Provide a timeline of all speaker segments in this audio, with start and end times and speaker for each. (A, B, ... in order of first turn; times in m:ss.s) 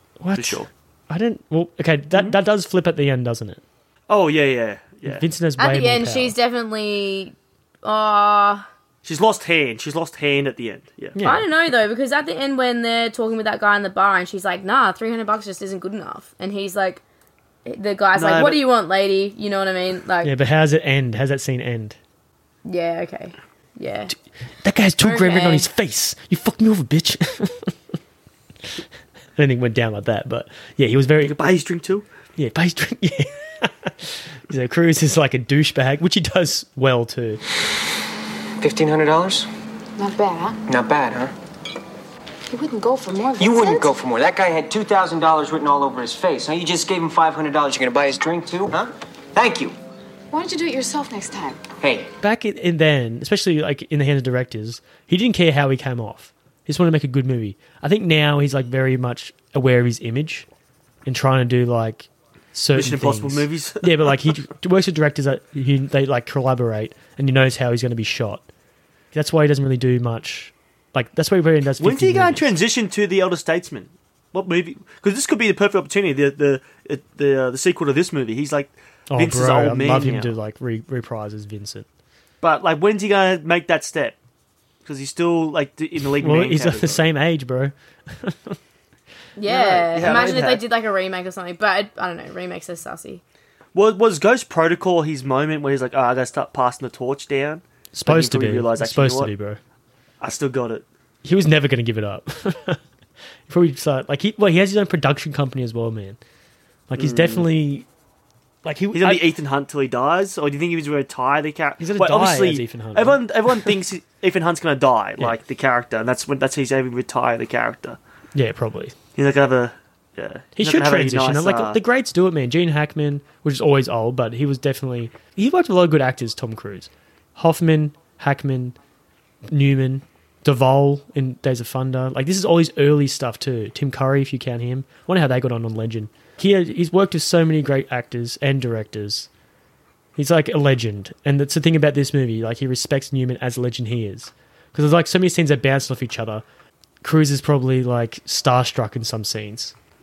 0:00.2-0:03.6 A
0:00.3-0:00.7 B
0:04.1-0:05.2 B
0:05.0-0:06.3 A
0:05.6-0:08.7 C
0:09.0-0:11.2 B
0:11.2-0:11.5 A
0:11.2-0:17.0 C
0:17.6-0:20.3 C
0:18.2-0:18.6 B
0:20.2-0:22.0 A
0:22.6-0:24.1 C
0:24.6-0:27.8 A
0:25.0-0:25.7 C
0:29.4-0:31.4 A
0:31.2-0:32.0 B
0:32.4-0:37.4 A
0:38.6-0:39.5 D
0:40.0-0:40.6 E
0:40.7-0:41.3 D
0:42.5-0:43.9 E
0:43.4-0:49.8 D
0:50.3-0:51.6 E
0:51.8-0:52.1 D
0:52.2-1:00.5 A
1:01.0-1:08.5 A
1:02.7-1:04.2 B
1:09.1-1:12.5 A
1:11.8-1:20.3 B
1:19.1-1:21.9 A
1:22.4-1:24.2 B
1:24.8-1:27.0 B
1:26.2-1:28.6 A
1:29.4-1:33.2 C
1:29.4-1:30.6 B
1:33.7-1:39.3 B
1:37.9-1:39.6 A
1:40.2-1:40.8 B
1:41.2-1:42.8 A
1:43.5-1:46.2 A
1:46.9-1:47.9 A
1:47.0-1:47.4 B
1:48.6-1:49.2 A
1:48.9-1:58.0 B
1:51.8-1:53.7 A
1:58.3-1:59.0 A
1:59.2-2:01.8 B
2:00.6-2:08.8 A
2:09.5-2:19.3 A
2:20.2-2:26.4 A
2:27.0-2:29.7 A